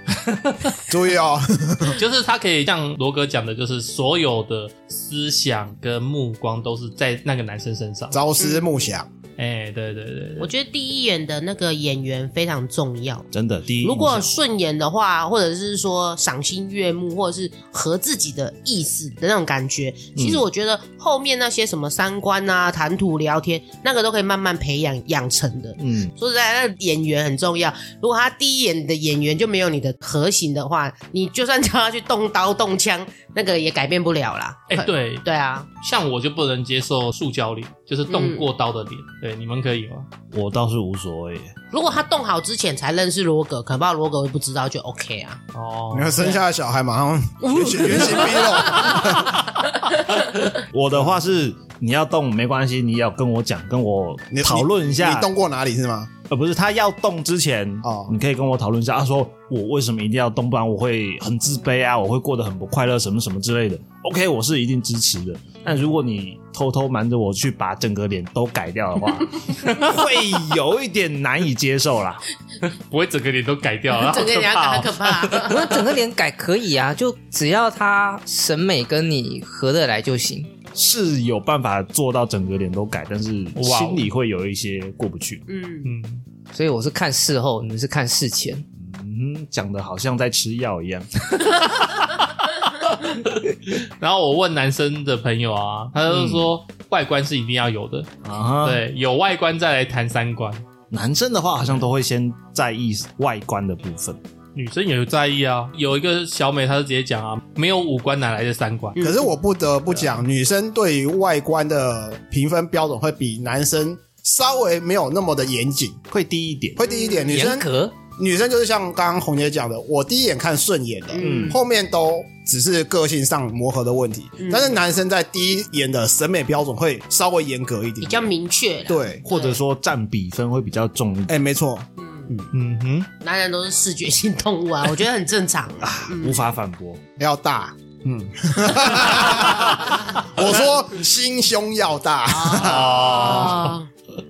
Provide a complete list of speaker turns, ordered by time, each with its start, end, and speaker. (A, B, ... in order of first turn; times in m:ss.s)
0:00.2-0:00.8 A
0:00.9-0:02.0 B
0:01.9-0:08.2 A
0:08.1-0:09.1 B
0:08.4-0:08.7 C
0:09.4-0:10.5 A
0:10.4-0:13.3 C
0:13.3-0:14.3 D
0:13.8-0:35.7 C
0:20.2-0:20.4 D
0:25.8-0:26.1 D
0:34.7-0:35.2 A
0:35.8-0:40.1 A
0:38.1-0:38.4 C
0:40.3-0:41.5 D
0:41.7-0:45.4 C
0:45.5-0:46.4 A
0:45.9-0:49.4 B
0:47.4-0:49.1 C
0:50.7-0:55.3 D
0:54.3-0:56.1 B
0:56.3-1:12.2 D
0:57.8-0:58.1 B
1:09.6-1:10.0 A
1:12.6-1:15.5 A
1:13.9-1:15.7 C
1:15.4-1:20.5 E
1:20.7-1:25.4 D
1:23.6-1:24.1 A
1:25.5-1:25.9 C
1:25.8-1:26.2 A
1:26.5-1:28.6 E
1:28.8-1:31.7 D
1:32.8-1:38.1 A
1:36.1-1:36.5 D
1:38.2-1:38.8 D
1:38.6-1:40.6 A
1:40.9-1:44.2 D
1:44.5-1:49.0 A
1:48.9-1:49.3 C
1:49.0-1:56.0 B
1:56.1-1:56.8 D
1:56.8-1:57.6 B
1:56.8-1:57.4 C
1:57.3-1:57.9 E
1:58.2-2:08.3 B
2:01.1-2:01.6 C
2:01.2-2:01.6 D
2:04.4-2:04.8 C
2:08.0-2:09.6 C
2:08.9-2:09.2 B
2:09.2-2:11.3 D
2:11.3-2:12.5 B
2:12.0-2:12.3 C
2:12.5-2:13.1 A
2:13.2-2:16.4 C
2:15.8-2:17.0 D
2:17.2-2:23.3 B
2:22.3-2:23.9 C
2:22.5-2:23.8 A